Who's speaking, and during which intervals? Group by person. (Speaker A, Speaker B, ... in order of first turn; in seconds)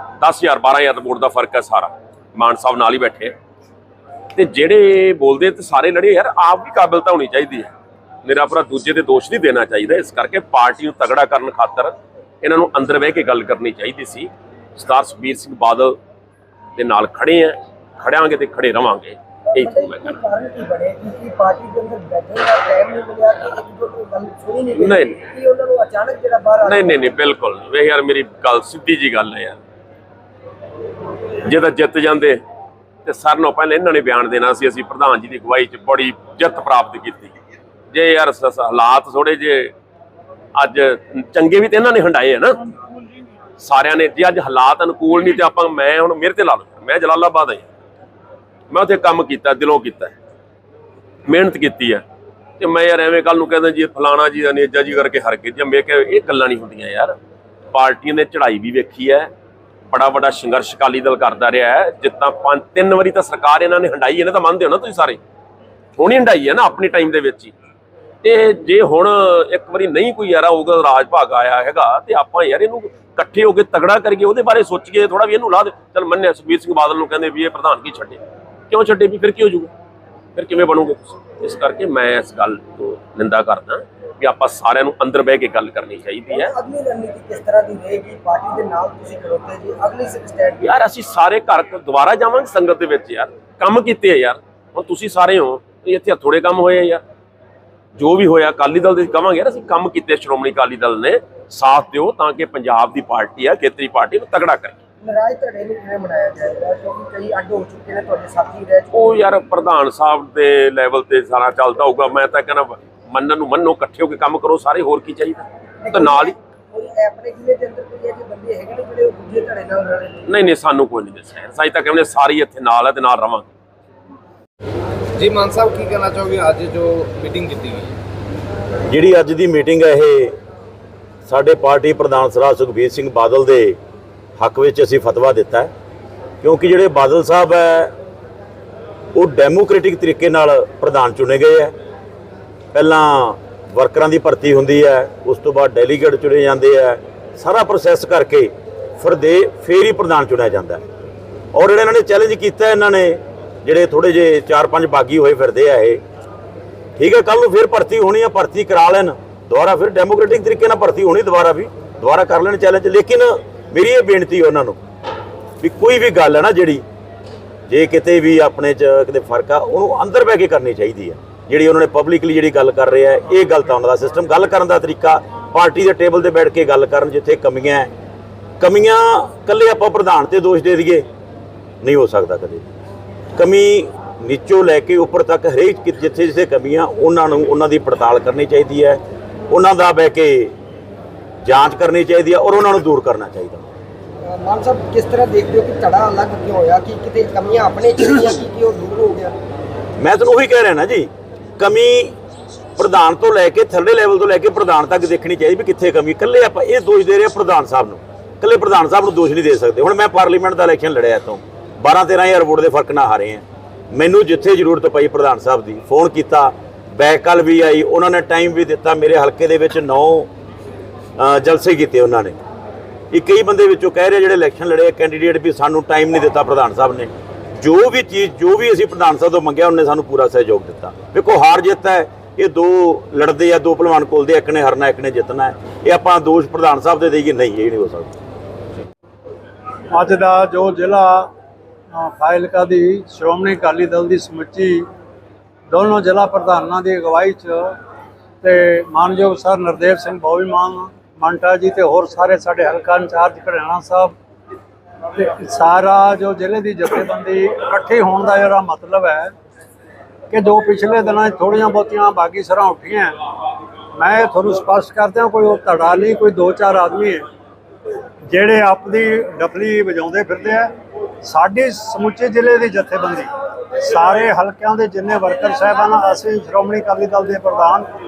Speaker A: 0.2-3.3, 4.3-7.7, 8.2-16.0, 16.8-20.2, 24.8-25.2, 26.6-29.6, 31.4-32.4, 33.0-37.3, 37.9-39.7, 40.6-42.6, 43.6-47.7, 48.7-50.1, 51.3-52.0, 52.6-57.1, 57.7-59.3, 59.9-65.2, 66.0-67.5, 68.2-79.7, 80.3-86.5, 90.6-97.0, 98.0-104.8, 108.9-116.3, 120.3-123.5
Speaker B: 19.5-27.0, 86.3-90.8, 105.0-109.2, 115.8-120.2, 194.2-199.4
Speaker C: 125.2-127.9
Speaker D: 128.9-130.3, 131.3-133.8, 134.4-135.7, 136.4-137.9, 139.1-141.7, 142.7-150.8, 151.5-156.0, 157.0-164.8, 165.6-166.8, 167.7-177.9, 178.6-181.0, 181.8-182.7, 183.3-190.5, 191.4-193.6, 200.0-202.1, 202.8-220.3, 221.2-222.3, 223.1-238.1
Speaker E: 239.9-241.3, 241.9-244.9, 245.7-247.7, 248.4-254.1, 255.2-259.3, 260.3-263.1, 263.9-267.2, 268.3-270.7, 271.2-273.3, 273.8-277.9